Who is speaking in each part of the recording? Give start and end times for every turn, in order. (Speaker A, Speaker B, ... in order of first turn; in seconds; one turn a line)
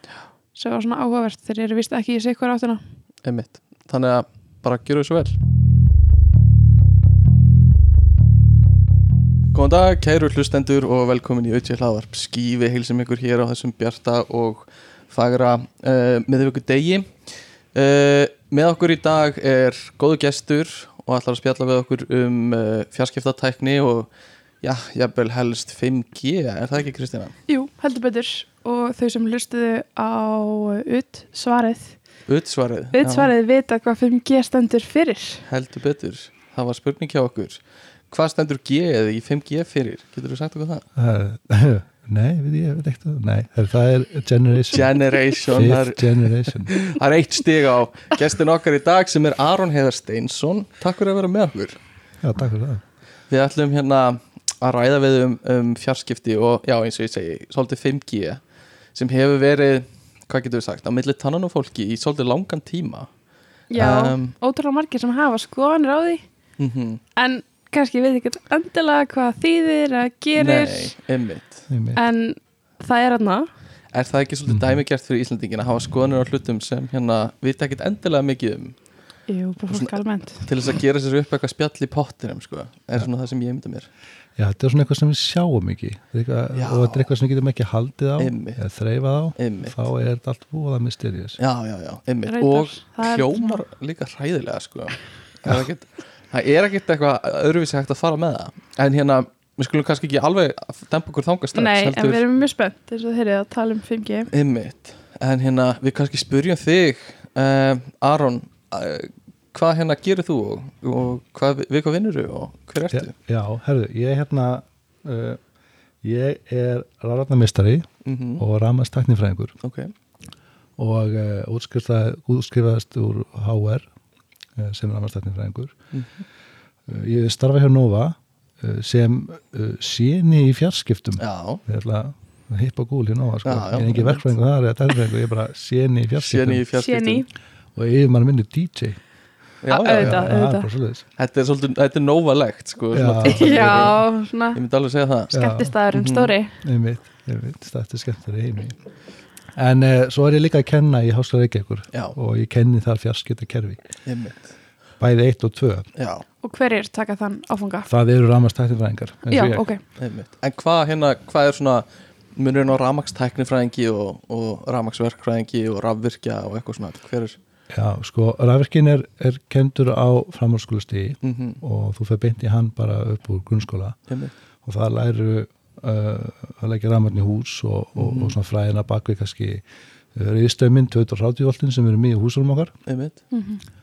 Speaker A: 0.5-2.8
Speaker B: 3.2-5.4
Speaker B: 9.5-24.1
Speaker B: 24.6-27.4
Speaker A: 27.5-32.2
Speaker B: 32.2-33.3
Speaker A: 32.9-35.4
Speaker B: 35.4-40.9
Speaker C: 41.0-44.9
Speaker B: 44.7-51.8
Speaker C: 45.5-46.9
Speaker C: 52.2-52.8
Speaker B: 53.3-63.1
Speaker A: 63.7-66.2
Speaker B: 63.7-64.3
Speaker B: 66.6-67.0
Speaker A: 67.2-70.9
Speaker B: 70.3-71.7
Speaker C: 71.7-72.0
Speaker A: 71.9-73.5
Speaker B: 73.9-78.8
Speaker C: 74.5-74.8
Speaker A: 79.3-80.5
Speaker B: 79.7-83.9
Speaker C: 84.3-91.4
Speaker B: 86.5-87.1
Speaker B: 88.2-88.6
Speaker B: 89.3-89.8
Speaker B: 91.4-102.2
Speaker A: 92.2-93.6
Speaker A: 101.5-104.3
Speaker B: 104.3-113.1
Speaker C: 112.9-115.4
Speaker C: 116.0-119.5
Speaker B: 118.0-118.4
Speaker B: 119.6-119.9
Speaker C: 120.8-123.9
Speaker C: 124.5-125.8
Speaker B: 125.9-126.2
Speaker C: 126.9-136.6
Speaker B: 131.2-131.6
Speaker B: 133.4-134.3
Speaker B: 136.2-137.2
Speaker A: 136.8-137.3
Speaker C: 137.7-139.0
Speaker B: 139.6-140.3
Speaker A: 139.7-140.7
Speaker C: 139.9-141.0
Speaker B: 141.2-145.3
Speaker C: 142.9-143.9
Speaker A: 143.2-144.6
Speaker A: 145.3-146.6
Speaker C: 145.3-145.7
Speaker B: 145.9-146.3
Speaker C: 146.6-148.8
Speaker C: 149.5-153.8
Speaker B: 154.0-154.5
Speaker C: 155.0-155.9
Speaker B: 155.9-156.2
Speaker A: 156.4-157.9
Speaker C: 157.9-159.6
Speaker A: 159.3-159.8
Speaker B: 160.0-167.4
Speaker C: 167.7-174.0
Speaker B: 171.2-171.6
Speaker B: 174.1-174.3
Speaker C: 174.6-179.6
Speaker B: 177.9-178.3
Speaker C: 180.1-182.7
Speaker B: 182.8-183.2
Speaker A: 183.3-183.6